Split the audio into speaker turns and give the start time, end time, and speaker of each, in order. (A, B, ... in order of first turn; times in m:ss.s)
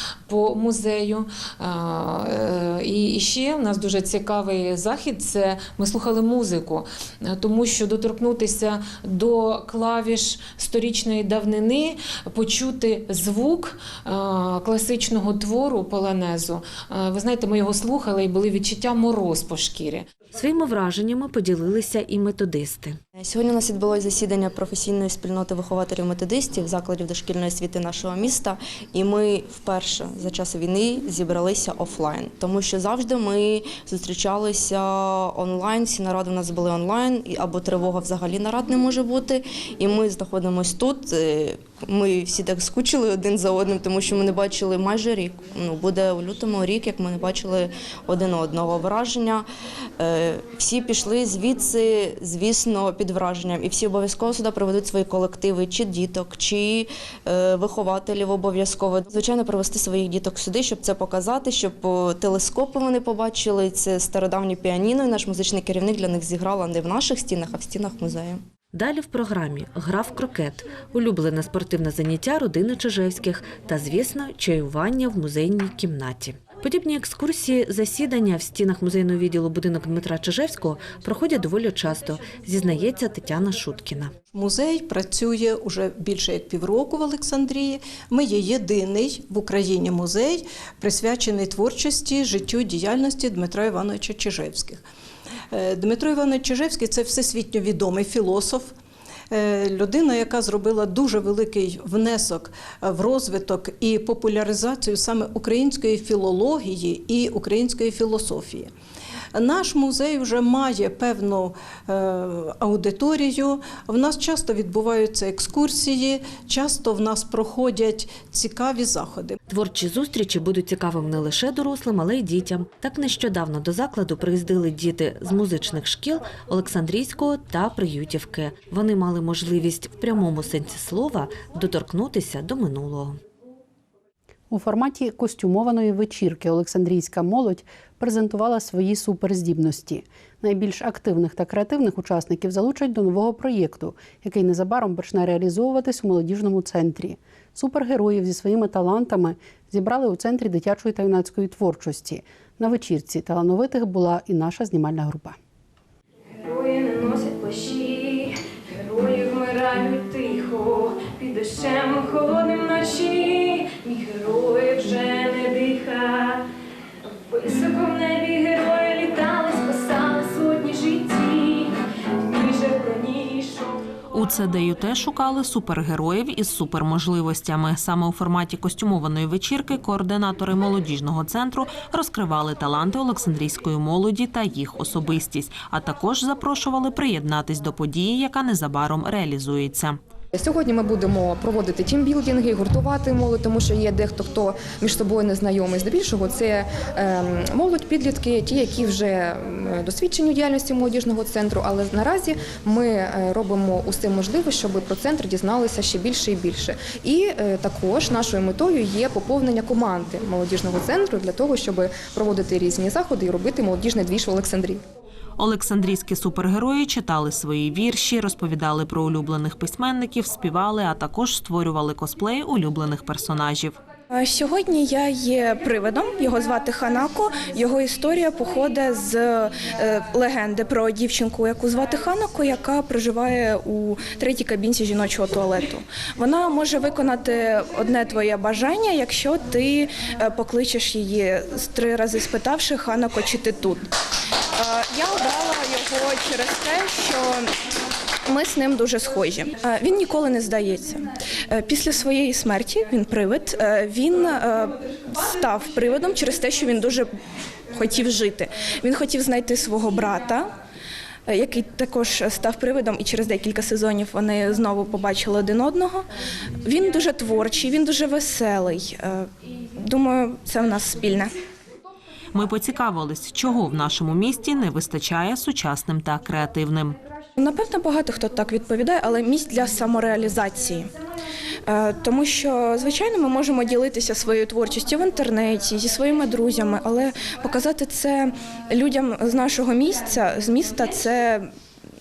0:00.3-0:20.0 A
0:20.3-0:23.0 B
0:23.1-0:49.5 C
0:50.0-1:08.4 C
1:08.7-1:24.1 B
1:24.3-1:34.8 D
1:35.5-1:38.7 D
1:39.3-1:48.7 D
1:49.3-1:59.4 D
1:59.5-2:13.2 B
2:14.5-2:35.4 E
2:36.4-2:46.4 F
2:47.3-2:53.8 F
2:54.1-3:10.0 G
3:10.3-3:34.8 H
3:35.4-3:43.8 G
3:44.1-4:03.8 I
4:04.6-4:07.5 I
4:08.3-4:17.1 I
4:17.7-4:20.5 I
4:21.3-4:26.0 I
4:26.6-4:31.3 I
4:32.3-4:37.0 G
4:37.4-4:40.9 I
4:41.6-4:51.5 I